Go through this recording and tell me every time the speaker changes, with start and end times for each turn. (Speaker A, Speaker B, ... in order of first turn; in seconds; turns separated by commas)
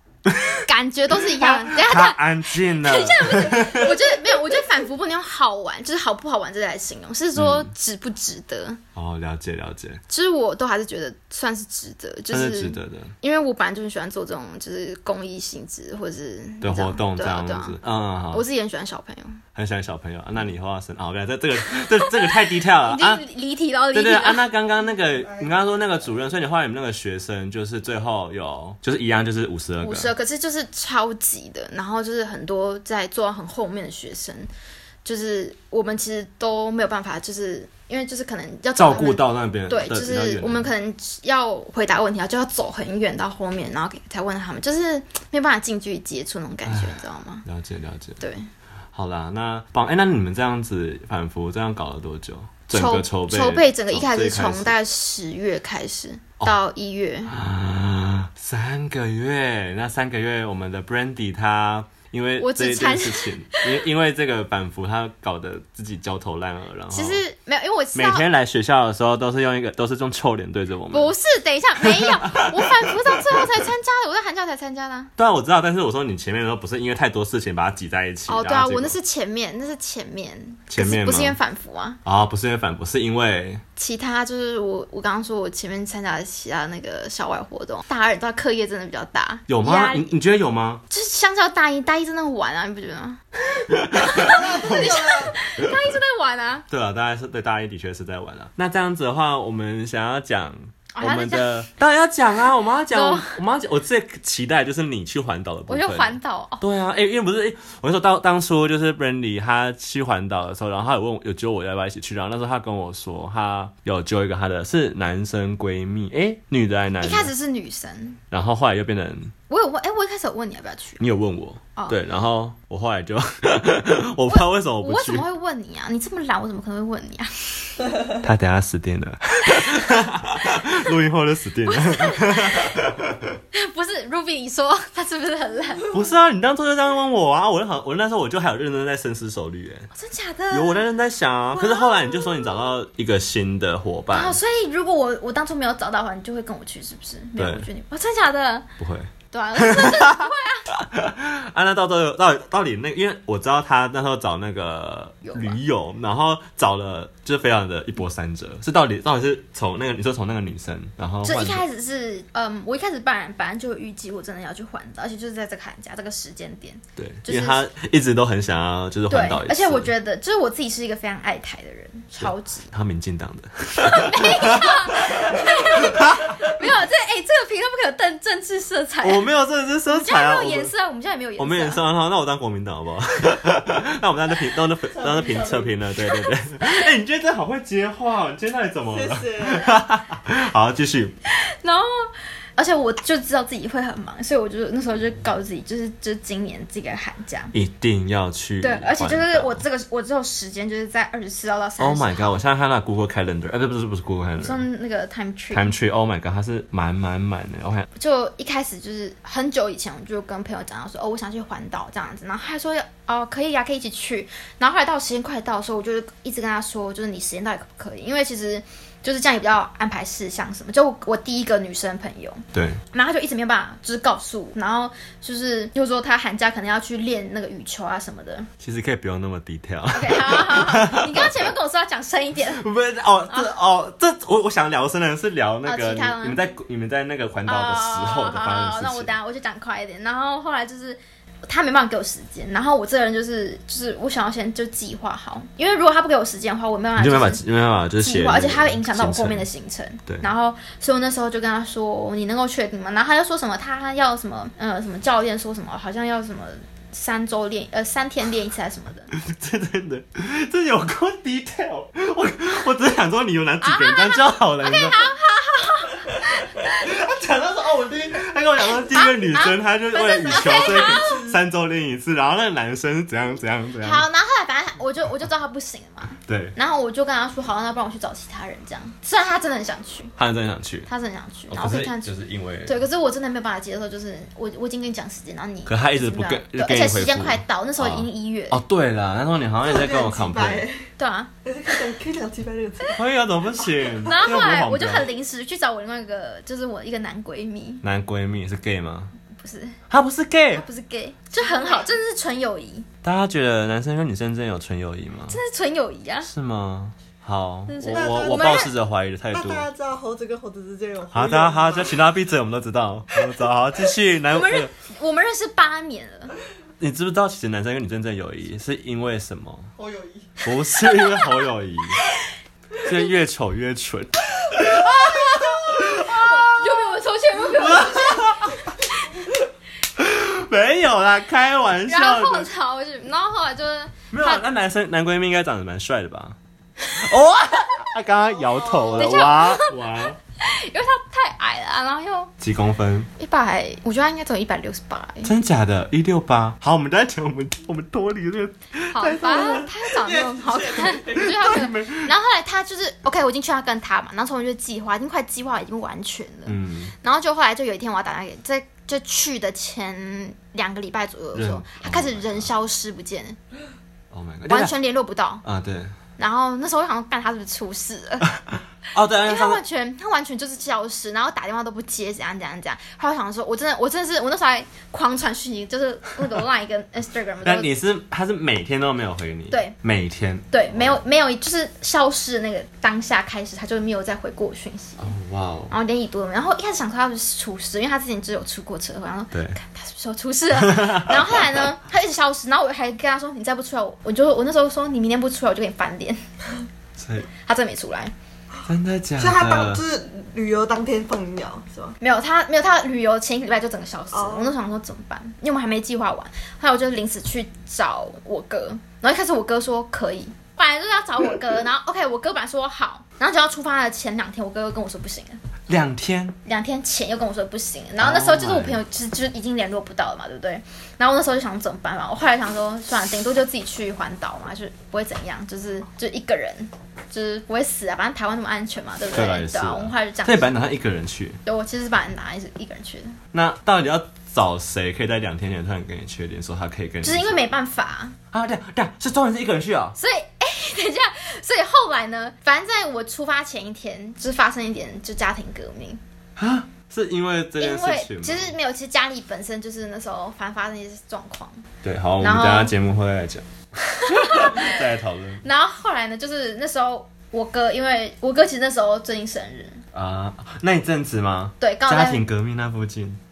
Speaker A: 0.2-0.7, Speaker B: 0.7-8.8, Speaker A: 1.2-3.9, Speaker A: 7.3-7.7, Speaker A: 8.9-10.0, Speaker B: 10.1-17.8, Speaker A: 12.3-13.1, Speaker A: 16.6-18.4, Speaker B: 18.3-19.4, Speaker A: 19.5-23.2, Speaker B: 21.8-24.5, Speaker A: 23.9-30.1, Speaker C: 25.1-25.9, Speaker B: 29.8-34.5, Speaker B: 35.0-47.4, Speaker A: 38.8-40.7, Speaker A: 46.6-48.2, Speaker B: 48.2-48.5, Speaker A: 48.9-54.7, Speaker B: 52.7-57.3, Speaker A: 57.3-67.2, Speaker B: 62.4-63.7, Speaker B: 66.9-68.2, Speaker A: 67.9-71.1, Speaker B: 70.9-75.1, Speaker A: 71.8-73.4, Speaker A: 75.2-78.9, Speaker B: 78.3-82.0, Speaker A: 80.7-81.4, Speaker A: 82.0-83.6, Speaker B: 83.8-90.1, Speaker A: 89.5-90.8, Speaker B: 90.9-93.2, Speaker A: 93.7-95.7, Speaker B: 93.9-96.7, Speaker C: 94.3-95.3, Speaker A: 96.7-117.3, Speaker B: 100.9-101.6, Speaker B: 102.9-103.4, Speaker B: 105.7-106.6, Speaker B: 117.0-118.2, Speaker A: 118.3-119.3, Speaker B: 119.5-121.0, Speaker A: 121.0-125.2, Speaker B: 124.3-127.9, Speaker A: 128.2-133.4, Speaker B: 129.5-130.0, Speaker B: 131.7-132.8, Speaker B: 133.5-135.9, Speaker A: 135.9-139.9, Speaker B: 139.9-140.9, Speaker A: 140.5-144.4, Speaker B: 141.5-142.6, Speaker B: 144.1-148.7, Speaker A: 147.4-147.7, Speaker A: 148.8-161.6, Speaker B: 149.3-150.7, Speaker B: 155.2-155.6, Speaker B: 161.2-167.6, Speaker A: 167.0-169.9, Speaker B: 169.1-172.7, Speaker A: 172.2-176.6, Speaker B: 173.8-179.3, Speaker A: 179.0-180.7, Speaker B: 179.9-181.8, Speaker A: 181.4-191.2, Speaker C: 184.9-185.7, Speaker B: 186.1-186.8, Speaker C: 188.9-189.8, Speaker B: 191.3-197.5, Speaker A: 197.5-199.6, Speaker B: 198.6-202.4, Speaker A: 201.8-204.6, Speaker B: 204.4-205.8, Speaker A: 205.5-207.9, Speaker B: 207.9-228.5, Speaker A: 222.5-222.8, Speaker A: 228.6-231.5, Speaker B: 229.9-232.6, Speaker A: 232.5-239.1, Speaker B: 235.6-236.4, Speaker B: 237.4-247.4, Speaker A: 247.0-249.4, Speaker B: 248.0-259.1, Speaker A: 259.1-265.1, Speaker B: 263.6-266.7, Speaker A: 266.0-274.0, Speaker B: 268.8-271.3, Speaker C: 270.5-271.3, Speaker B: 273.8-280.1, Speaker A: 276.2-276.5, Speaker A: 280.2-280.9, Speaker B: 280.9-288.6, Speaker A: 281.5-282.8, Speaker A: 285.6-290.6, Speaker C: 289.6-290.9, Speaker B: 291.0-291.3, Speaker C: 291.4-293.0, Speaker A: 292.9-295.1, Speaker B: 294.0-297.8, Speaker A: 297.8-299.1, Speaker B: 299.3-299.8, Speaker A: 299.9-300.6, Speaker B: 300.5-302.9, Speaker C: 301.4-301.9, Speaker A: 303.0-305.4, Speaker B: 305.3-306.3, Speaker A: 306.2-309.7, Speaker B: 307.7-308.7, Speaker C: 307.9-308.7, Speaker C: 309.3-312.0, Speaker A: 311.1-314.7, Speaker B: 314.3-316.4, Speaker A: 316.8-319.7, Speaker C: 319.8-320.3, Speaker A: 320.4-322.0, Speaker B: 320.8-321.3, Speaker A: 322.8-326.5, Speaker B: 325.9-329.1, Speaker A: 327.5-328.7, Speaker A: 329.9-332.5, Speaker B: 331.9-334.4, Speaker A: 334.1-336.4, Speaker A: 336.9-340.2, Speaker C: 338.5-339.1, Speaker B: 338.9-342.3, Speaker A: 342.4-343.1, Speaker B: 343.2-345.3, Speaker A: 345.2-349.8, Speaker B: 348.9-363.4, Speaker C: 349.9-351.4, Speaker A: 351.1-352.1, Speaker A: 356.4-356.9, Speaker A: 361.3-362.5, Speaker A: 364.1-364.7, Speaker B: 364.5-365.4, Speaker A: 365.4-365.9, Speaker B: 366.2-368.3, Speaker A: 368.9-369.6, Speaker B: 369.2-377.7, Speaker A: 377.4-381.0, Speaker B: 379.5-379.8, Speaker B: 380.5-385.1, Speaker A: 385.0-385.7, Speaker B: 385.7-396.2, Speaker A: 389.3-389.6, Speaker A: 390.6-391.6, Speaker A: 397.0-397.3, Speaker B: 397.4-398.1, Speaker A: 398.6-399.8, Speaker C: 399.2-401.9, Speaker B: 402.0-415.4, Speaker C: 404.1-404.5, Speaker A: 415.7-416.4, Speaker B: 416.4-430.5, Speaker A: 418.0-418.8, Speaker A: 429.1-431.4, Speaker B: 431.4-433.2, Speaker A: 433.3-437.4, Speaker B: 437.0-438.1, Speaker A: 438.3-439.9, Speaker B: 440.0-446.0, Speaker A: 446.4-448.5, Speaker B: 447.6-451.6, Speaker A: 451.8-453.5, Speaker B: 452.2-452.7, Speaker A: 454.0-455.4, Speaker B: 454.0-454.8, Speaker B: 455.4-459.8, Speaker A: 459.9-463.2, Speaker B: 461.6-462.2